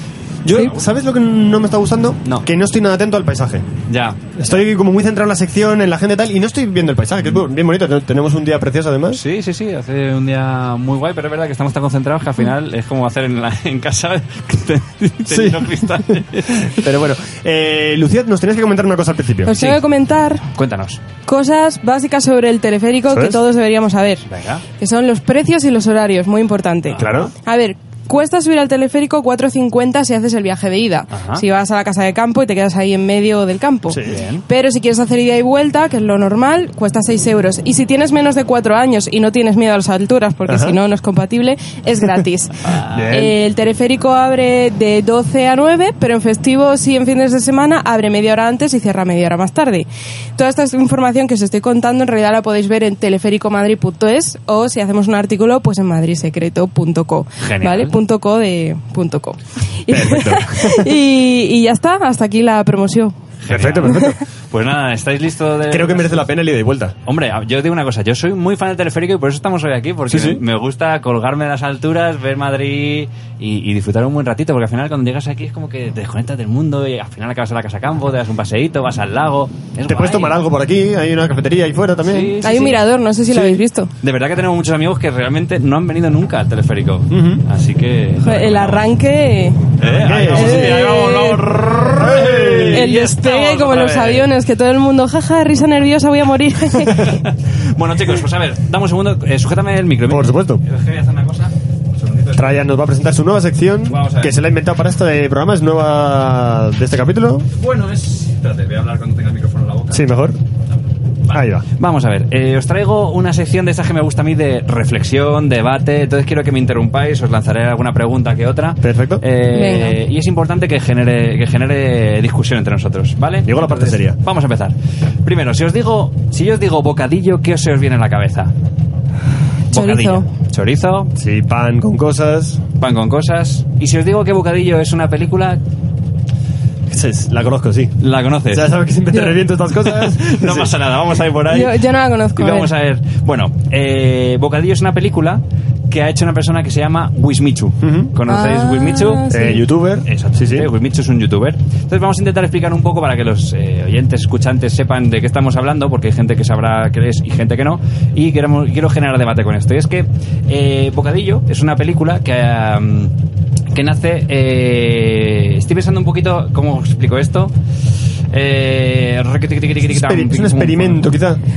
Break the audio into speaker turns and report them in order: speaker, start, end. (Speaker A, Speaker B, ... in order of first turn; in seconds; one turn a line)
Speaker A: 0.4-3.7
Speaker B: 0.5-0.8
Speaker B: 3.9-4.4
Speaker A: 4.4-9.2
Speaker B: 9.1-16.8
Speaker A: 15.3-16.0
Speaker A: 16.7-19.5
Speaker C: 19.4-20.4
Speaker B: 19.5-19.8
Speaker B: 20.5-21.0
Speaker C: 21.2-42.5
Speaker A: 23.1-23.4
Speaker B: 24.2-24.6
Speaker B: 26.9-27.3
Speaker A: 26.9-27.3
Speaker B: 31.1-31.4
Speaker A: 33.9-34.1
Speaker B: 34.0-34.4
Speaker A: 40.5-40.8
Speaker B: 42.7-43.2
Speaker A: 42.9-43.3
Speaker C: 43.1-63.1
Speaker B: 57.4-58.0
Speaker A: 59.9-60.9
Speaker B: 63.4-66.3
Speaker A: 63.5-64.2
Speaker C: 63.8-64.2
Speaker A: 65.7-66.9
Speaker B: 67.0-80.4
Speaker A: 70.1-70.4
Speaker A: 79.9-82.3
Speaker B: 82.0-82.8
Speaker C: 82.4-83.9
Speaker A: 83.3-83.6
Speaker B: 84.0-88.9
Speaker A: 87.1-87.4
Speaker C: 88.2-89.7
Speaker B: 89.8-94.3
Speaker A: 89.8-90.8
Speaker C: 90.2-91.5
Speaker A: 91.9-92.9
Speaker C: 92.7-97.1
Speaker B: 96.9-102.7
Speaker A: 100.1-100.6
Speaker A: 102.3-107.5
Speaker B: 103.9-104.4
Speaker B: 107.5-110.1
Speaker A: 109.9-110.4
Speaker B: 111.3-128.5
Speaker A: 111.3-111.6
Speaker A: 118.8-119.2
Speaker C: 119.5-120.0
Speaker A: 123.4-124.2
Speaker C: 129.7-130.2
Speaker B: 129.7-131.1
Speaker A: 131.2-132.6
Speaker B: 132.8-135.6
Speaker A: 136.9-137.9
Speaker B: 138.0-138.7
Speaker A: 138.5-140.7
Speaker B: 139.8-141.8
Speaker C: 141.5-142.7
Speaker B: 142.3-149.2
Speaker A: 147.8-148.1
Speaker C: 148.2-149.6
Speaker A: 149.3-150.7
Speaker B: 150.1-163.1
Speaker B: 163.7-167.5
Speaker B: 168.3-171.1
Speaker A: 169.8-171.4